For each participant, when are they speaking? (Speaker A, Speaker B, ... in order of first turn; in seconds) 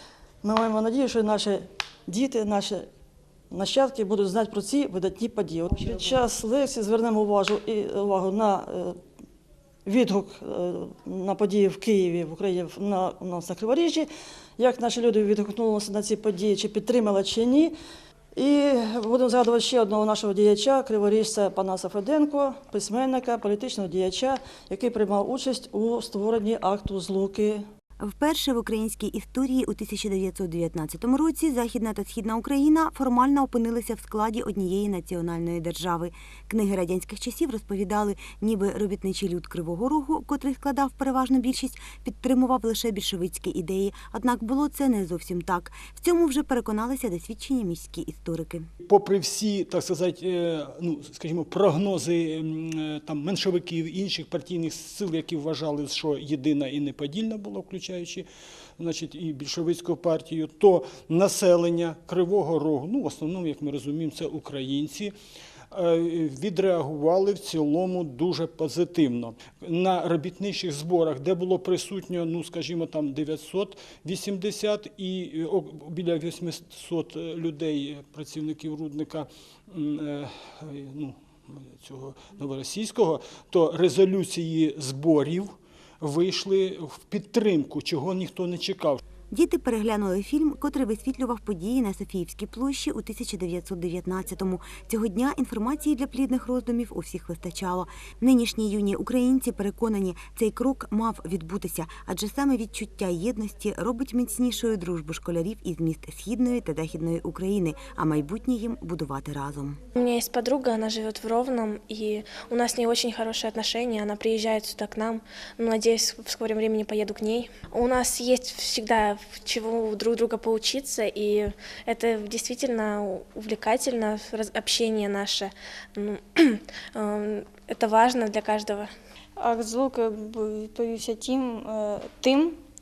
Speaker A: 0.4-2.9, 3.5-9.0, 9.9-17.8, 18.4-27.6
Speaker B: 28.0-48.7, 89.3-109.8
Speaker C: 48.8-58.3, 58.8-65.1, 65.7-89.0
Speaker D: 110.0-128.9
Speaker E: 129.4-132.6